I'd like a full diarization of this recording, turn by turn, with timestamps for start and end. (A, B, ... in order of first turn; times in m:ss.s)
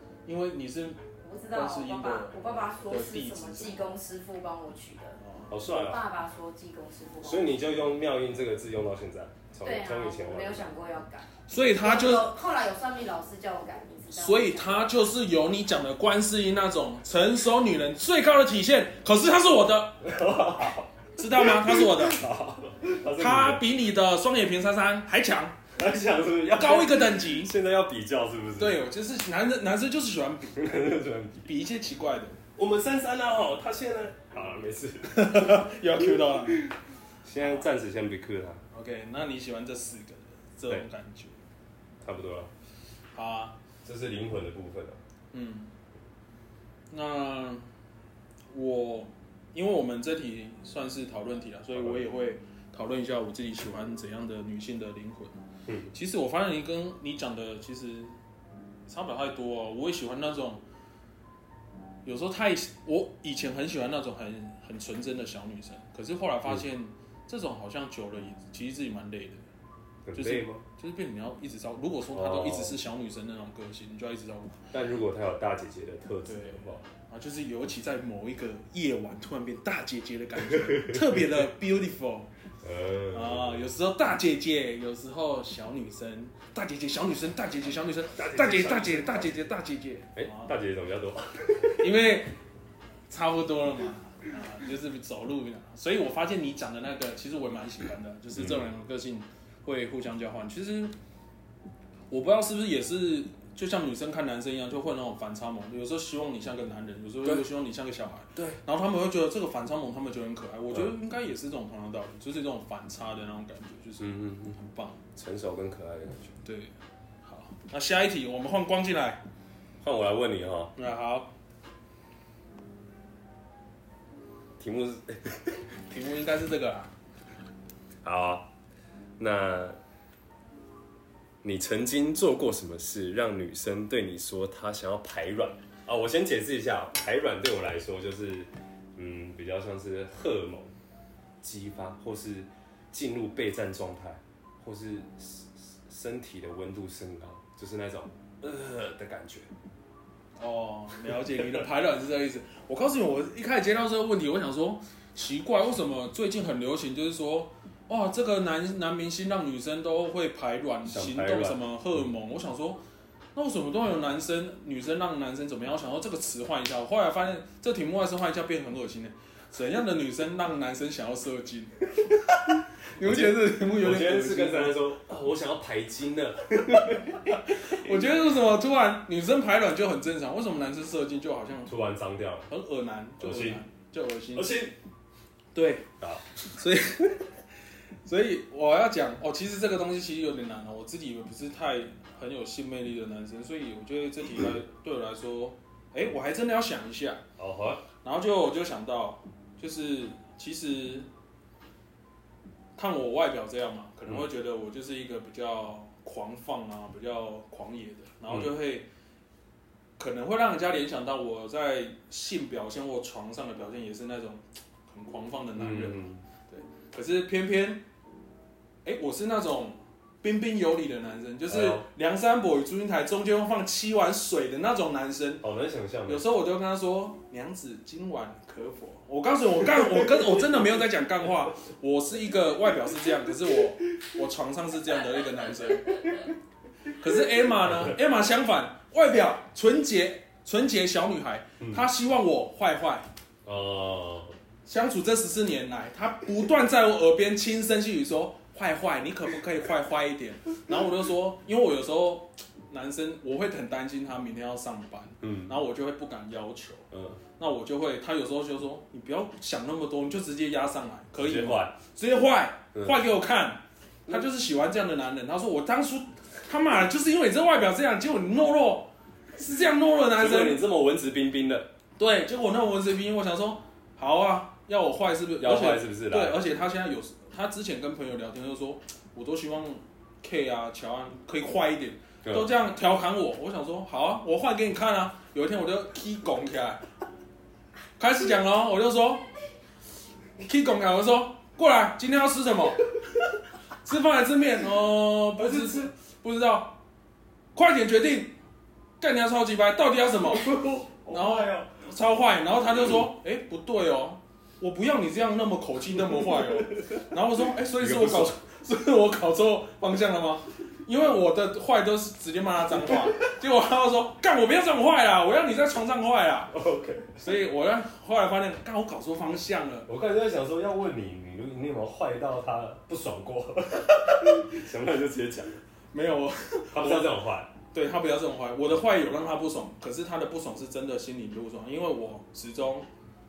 0:00.2-0:03.9 A
0:01.2-0:07.5 B
0:05.2-0:05.5 A
0:05.5-0:06.0 C
0:07.2-0:10.7 C
0:09.6-0:11.3 B
0:11.5-0:12.4 A
0:11.8-0:14.9 B
0:14.1-0:20.0 A
0:20.0-0:23.6 C
0:21.2-0:22.2 A
0:23.2-0:25.6 A
0:25.7-0:28.8 C
0:26.5-0:27.5 A
0:28.6-0:30.7 A
0:30.6-0:31.5 C
0:31.4-0:32.4 A
0:32.6-0:38.6 C
0:35.1-0:36.7 A
0:38.7-0:41.4 A
0:42.0-0:42.5 C
0:43.1-0:43.6 A
0:43.8-0:45.0 C
0:45.3-0:45.7 A
0:46.9-0:47.7 A
0:48.5-0:55.4 A
0:51.7-0:52.0 C
0:55.9-0:58.1 A
0:58.9-1:00.6 A
1:02.0-1:09.4 A
1:10.0-1:10.6 C
1:10.1-1:14.6 A
1:12.1-1:12.8 C
1:14.7-1:16.9 C
1:16.2-1:22.3 A
1:20.7-1:21.2 C
1:22.6-1:23.7 C
1:23.1-1:30.5 A
1:28.1-1:29.5 C
1:30.1-1:31.9 C
1:31.8-1:32.4 A
1:33.1-1:40.9 A
1:38.3-1:38.6 C
1:42.1-1:55.0 A
1:48.3-1:48.6 C
1:54.0-1:54.6 C
1:55.1-1:56.4 C
1:56.4-1:59.2 A
1:59.8-2:00.7 C
2:00.8-2:01.3 A
2:04.6-2:05.6 C
2:05.9-2:06.9 A
2:08.0-2:08.5 C
2:09.2-2:09.8 C
2:11.4-2:20.7 C
2:21.4-2:29.5 C
2:30.4-2:42.8 A
2:40.8-2:41.6 C
2:43.3-2:54.8 A
2:53.0-2:58.0 C
2:56.8-3:01.7 A
3:01.6-3:02.5 C
3:02.5-3:04.6 A
3:03.2-3:03.6 C
3:04.3-3:04.7 C
3:05.5-3:05.9 A
3:06.0-3:06.3 C
3:06.4-3:07.3 A
3:08.0-3:17.2 A
3:17.4-3:17.8 C
3:18.0-3:21.1 A
3:22.8-3:28.9 A
3:30.0-3:37.8 A
3:35.6-3:36.2 C
3:38.8-3:45.4 A
3:41.5-3:41.9 C
3:45.4-3:46.2 C
3:46.0-3:56.3 A
3:56.9-4:03.1 A
3:57.6-3:58.0 C
4:03.4-4:04.3 C
4:04.6-4:16.9 A
4:15.2-4:15.6 C
4:16.9-4:17.2 C
4:17.4-4:30.6 A
4:21.2-4:21.8 C
4:30.2-4:31.7 C
4:32.0-4:46.8 A
4:35.4-4:36.4 C
4:42.2-4:42.5 C
4:48.0-4:49.3 A
4:50.4-4:52.9 A
4:53.8-4:56.8 A
4:55.4-4:55.9 C
4:57.5-4:58.4 A
4:59.0-5:16.6 A
5:00.3-5:01.7 C
5:07.8-5:08.4 C
5:16.5-5:17.2 C
5:17.1-5:19.9 A
5:19.9-5:25.6 C
5:25.9-5:27.2 A
5:26.7-5:27.5 C
5:27.7-5:32.9 A